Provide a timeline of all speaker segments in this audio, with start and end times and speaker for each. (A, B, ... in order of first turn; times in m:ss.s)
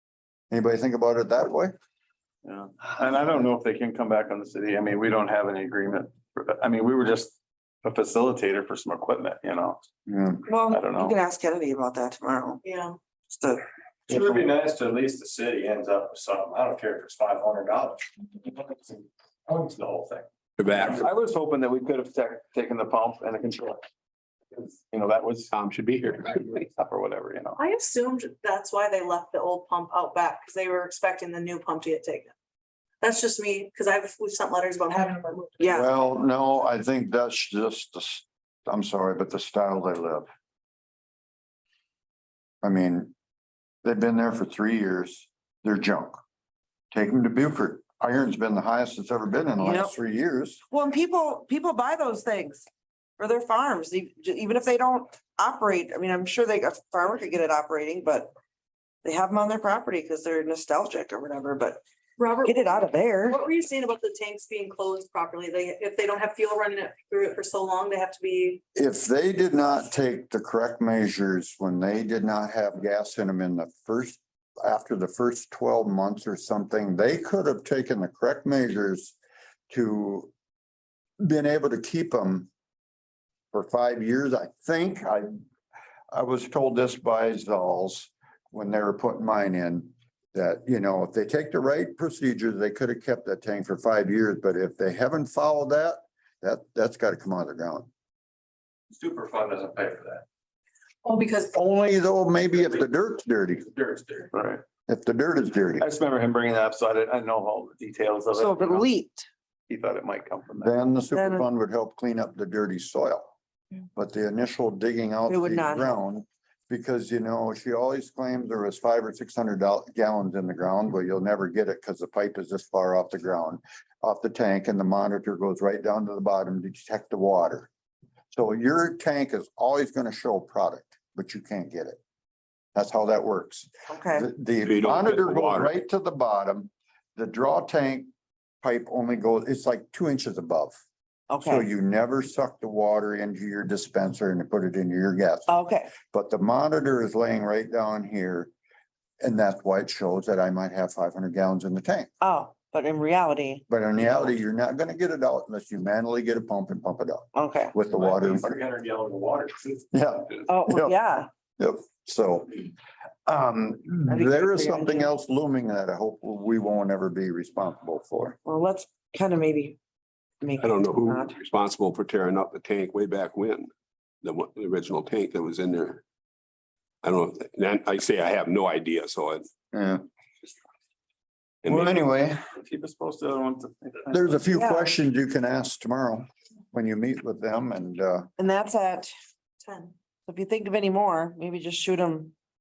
0:00.5-0:01.7 A
0:02.4-0:09.8 B
0:10.1-0:10.4 A
0:10.5-0:12.6 C
0:10.7-0:11.2 B
0:12.6-0:13.0 D
0:13.3-0:13.7 C
0:14.1-0:21.0 E
0:20.6-0:21.0 F
0:20.9-0:23.8 B
0:24.5-0:25.5 B
0:25.5-0:26.7 F
0:26.5-0:27.6 B
0:27.6-0:32.3 D
0:33.0-0:35.8 D
0:35.6-0:35.9 C
0:35.7-0:40.3 A
0:42.6-0:43.1 A
0:43.8-0:46.2 A
0:46.9-0:50.6 A
0:49.6-0:49.9 C
0:50.7-0:52.7 C
0:53.2-0:58.3 C
0:59.0-1:01.8 C
1:02.2-1:08.6 D
1:02.4-1:03.4 C
1:08.8-1:19.2 A
1:19.7-1:20.3 A
1:21.2-1:22.5 A
1:23.5-1:25.3 A
1:26.1-1:37.9 A
1:38.9-1:40.2 E
1:41.0-1:41.5 D
1:41.5-1:43.7 A
1:43.7-1:44.3 E
1:44.3-1:44.6 B
1:44.9-1:45.9 A
1:45.8-1:48.9 B
1:48.3-1:49.3 C
1:49.7-1:50.7 B
1:50.6-1:53.3 A
1:51.1-1:51.5 C
1:54.0-2:07.7 A
1:55.3-1:55.9 C
2:08.3-2:12.0 A
2:12.8-2:18.1 A
2:13.9-2:14.3 C
2:14.6-2:15.7 F
2:18.6-2:20.8 A
2:21.3-2:21.7 C
2:21.4-2:28.5 A
2:25.5-2:25.9 C
2:29.2-2:32.1 A
2:32.2-2:33.6 C
2:33.7-2:38.5 A
2:37.3-2:37.8 C
2:37.9-2:39.8 E
2:39.9-2:41.0 A
2:40.5-2:41.3 C
2:41.6-2:42.7 A
2:43.3-2:48.4 A
2:44.1-2:45.1 C
2:48.4-2:49.8 C
2:50.4-2:51.4 C
2:50.6-2:53.7 F
2:54.2-2:56.0 F
2:57.0-2:59.5 F
2:59.7-3:00.0 A
3:01.6-3:02.0 F
3:01.6-3:02.4 A
3:02.5-3:04.4 B
3:04.1-3:08.3 A
3:04.5-3:04.9 C
3:08.4-3:09.1 C
3:09.6-3:09.9 D
3:10.3-3:12.3 C